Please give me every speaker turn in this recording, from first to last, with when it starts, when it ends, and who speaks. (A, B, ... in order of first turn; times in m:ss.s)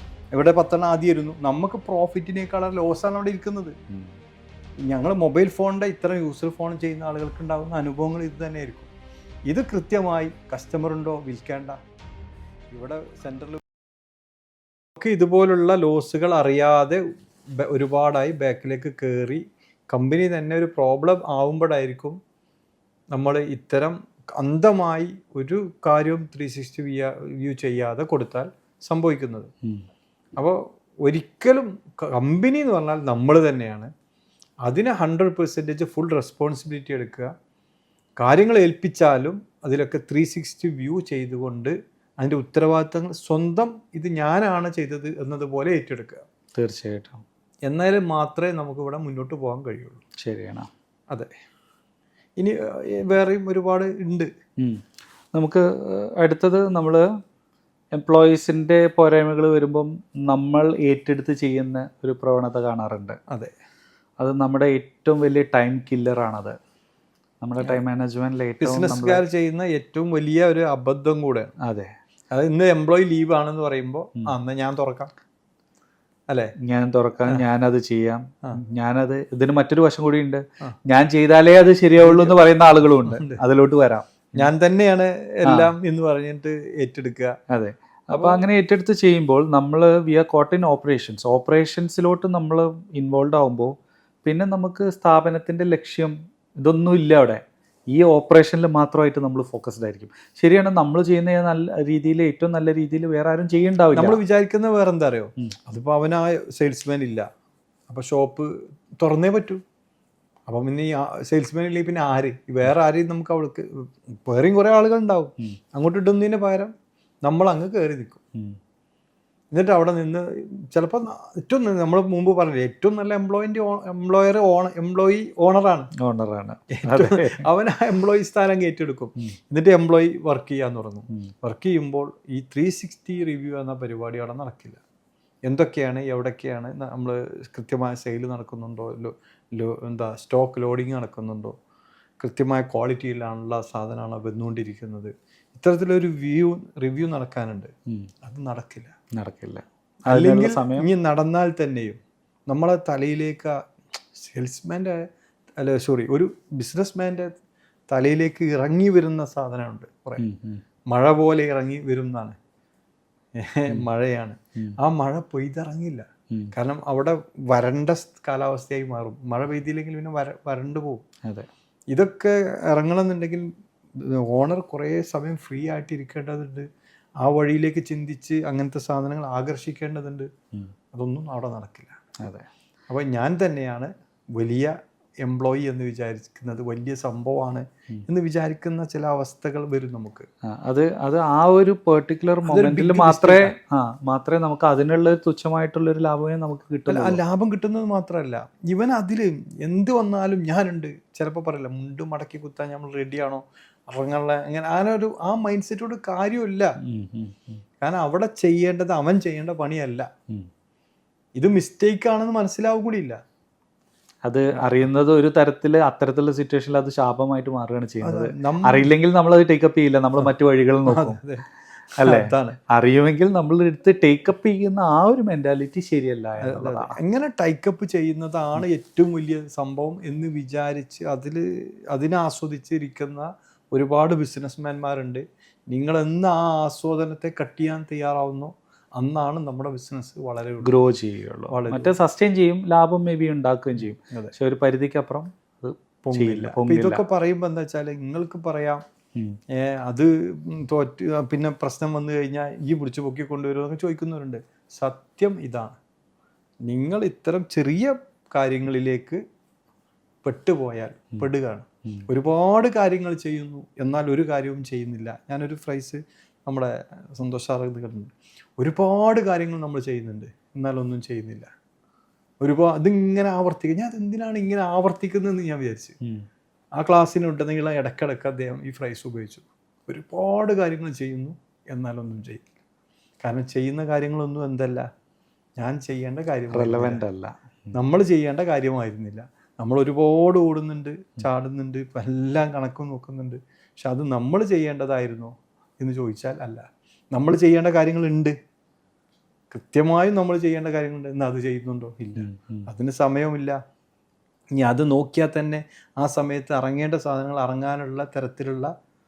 0:00.3-0:03.8 A
0:04.9-0:08.9 A
0:09.5-0:11.8 A
0:12.7-0:13.6 A
0:15.0-0:17.0 A
0:17.6-0:22.2 A
0:23.1-0:29.5 A
0:30.4-0:33.9 A
0:34.6-0:37.3 A
0:38.2-0:46.2 A
0:46.6-0:47.2 B
0:47.7-0:50.0 A
0:50.2-0:50.7 B
0:52.4-0:54.3 A
0:55.3-0:57.1 B
0:58.0-1:03.2 B
1:04.2-1:06.6 B
1:07.4-1:09.2 B
1:08.6-1:11.5 A
1:11.6-1:11.9 B
1:12.3-1:15.1 A
1:16.3-1:16.5 A
1:16.6-1:24.5 B
1:22.0-1:22.4 A
1:23.0-1:23.4 A
1:24.4-1:27.4 A
1:25.5-1:25.7 B
1:27.5-1:33.7 B
1:28.1-1:28.4 A
1:34.2-1:44.2 B
1:44.0-1:47.3 A
1:47.9-1:49.6 A
1:50.5-1:56.7 A
1:57.2-1:58.2 A
1:59.5-2:05.9 A
2:06.0-2:07.4 B
2:06.7-2:14.8 A
2:15.5-2:21.6 A
2:22.2-2:27.7 A
2:28.2-2:28.9 A
2:29.2-2:30.9 B
2:30.1-2:33.6 A
2:34.1-2:35.0 A
2:35.6-2:37.3 A
2:37.9-2:40.2 A
2:40.2-2:40.6 B
2:40.9-2:42.4 A
2:43.4-2:51.0 A
2:51.9-2:53.5 A
2:54.0-2:56.7 A
2:57.2-3:00.3 A
3:00.9-3:02.2 A
3:02.9-3:10.3 A
3:10.5-3:17.2 B
3:12.5-3:13.5 A
3:16.9-3:26.8 A
3:26.8-3:27.6 B
3:27.8-3:30.1 A
3:31.4-3:33.2 A
3:34.2-3:41.2 B
3:34.6-3:34.9 A
3:38.0-3:38.9 A
3:40.9-3:41.4 A
3:42.0-3:42.6 A
3:42.0-3:47.0 B
3:46.4-4:00.7 A
4:00.6-4:07.0 B
4:01.5-4:01.9 A
4:03.8-4:04.3 A
4:06.0-4:08.8 A
4:09.6-4:15.8 A
4:16.6-4:19.2 A
4:20.2-4:31.5 A
4:32.4-4:36.0 A
4:36.8-4:42.4 A
4:43.2-4:44.9 A
4:45.6-4:47.0 A
4:46.5-4:47.7 B
4:47.7-4:58.4 A
4:59.5-5:03.6 A
5:02.2-5:02.7 B
5:04.5-5:08.7 A